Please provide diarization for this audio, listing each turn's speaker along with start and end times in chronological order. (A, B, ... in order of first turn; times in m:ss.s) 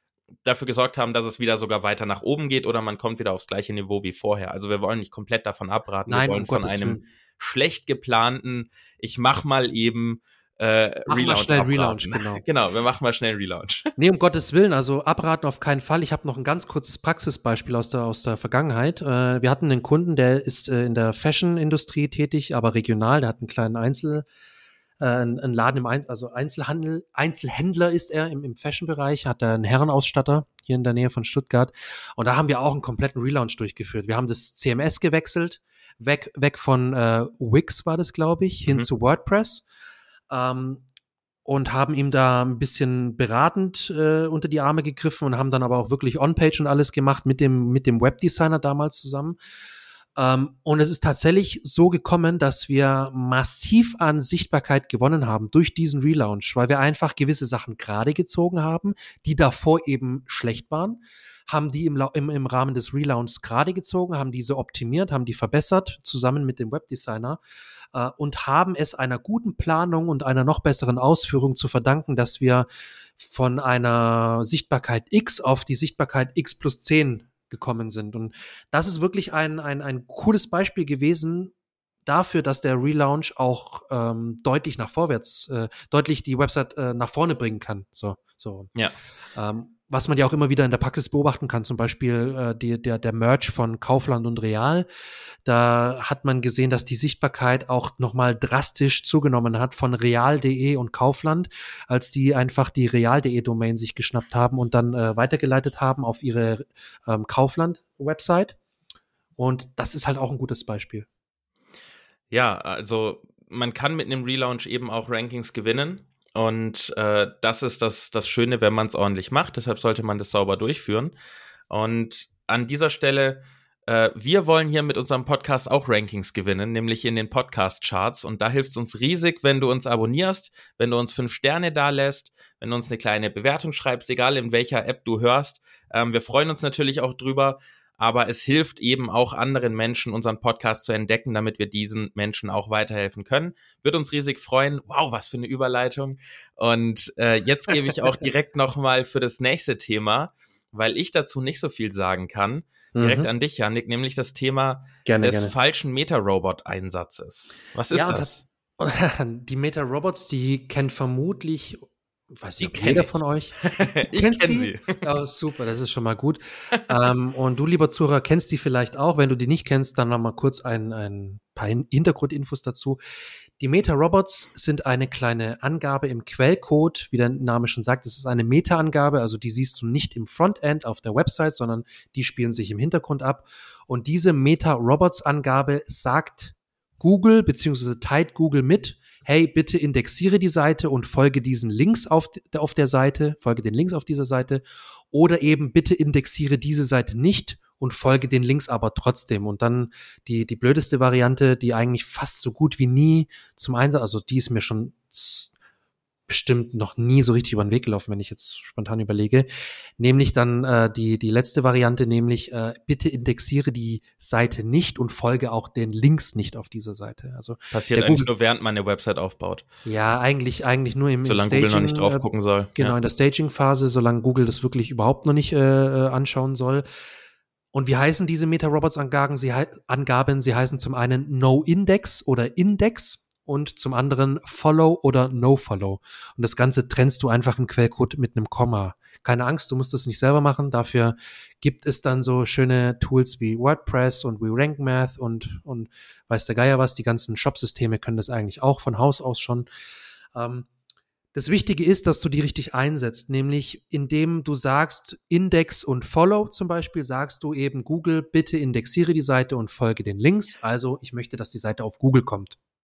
0:00.4-0:13.9 A
0:06.1-0:07.0 B
0:11.1-0:12.4 B
0:14.0-0:24.3 B
0:25.0-0:39.6 B
0:40.3-0:40.8 B
0:41.5-0:49.4 B
0:50.2-1:07.4 B
1:07.9-1:12.7 B
1:13.2-1:21.5 B
1:22.1-1:28.7 B
1:29.3-1:34.9 B
1:35.4-1:48.6 B
1:49.4-1:51.1 B
1:52.3-2:01.2 A
2:01.7-2:38.4 A
2:32.9-2:33.3 B
2:35.0-2:35.5 B
2:37.9-2:53.0 B
2:42.6-2:45.0 A
2:53.6-3:25.5 B
3:26.3-3:38.3 B
3:37.7-3:39.6 A
3:39.8-3:42.2 B
3:41.2-3:43.0 A
3:42.8-3:46.9 B
3:47.7-4:09.7 B
4:10.4-4:10.7 B
4:11.3-4:22.6 B